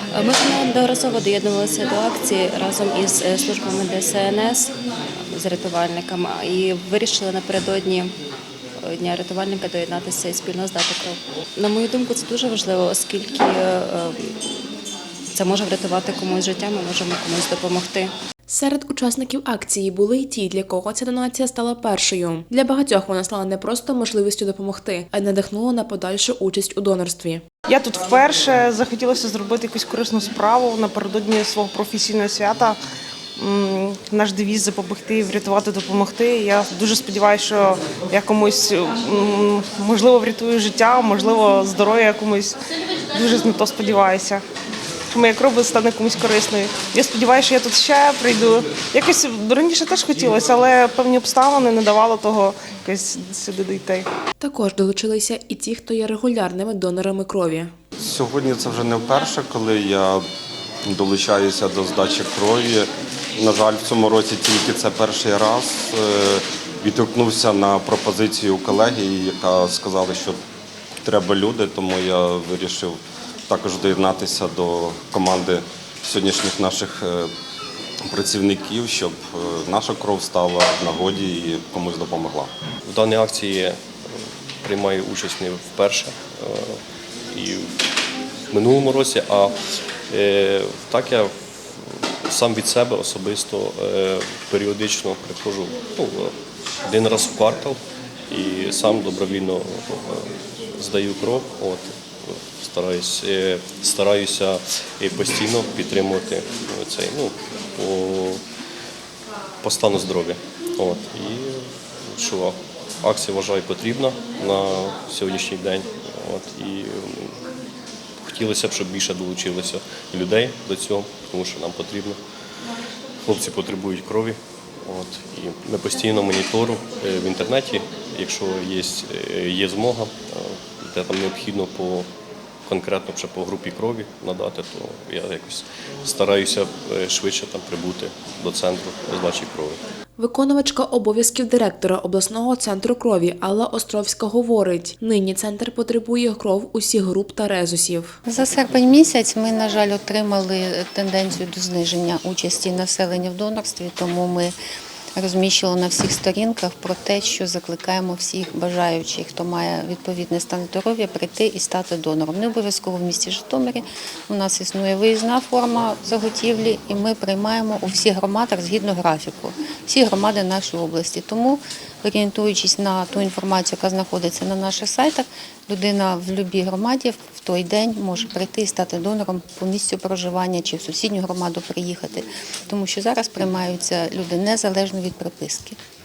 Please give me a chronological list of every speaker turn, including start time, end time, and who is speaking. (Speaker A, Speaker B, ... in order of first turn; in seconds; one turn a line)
Speaker A: 0.2-4.7
Speaker A: 5.4-8.1
Speaker A: 8.9-14.1
Speaker A: 15.4-18.1
Speaker B: 18.5-27.4
Speaker C: 27.7-32.8
Speaker C: 33.4-42.6
Speaker C: 43.1-44.4
Speaker C: 45.1-54.1
Speaker B: 54.4-57.7
Speaker D: 58.0-60.2
Speaker D: 60.9-70.4
Speaker D: 71.0-77.3
Speaker D: 78.1-82.5
Speaker E: 82.8-83.8
Speaker E: 84.6-86.8
Speaker E: 87.3-87.7
Speaker E: 88.5-89.5
Speaker E: 90.1-108.4
Speaker E: 109.6-117.4
Speaker E: 118.2-122.2
Speaker E: 123.2-132.1
Speaker E: 132.6-139.8
Speaker B: 140.2-148.2
Speaker F: 148.2-154.5
Speaker F: 155.1-185.8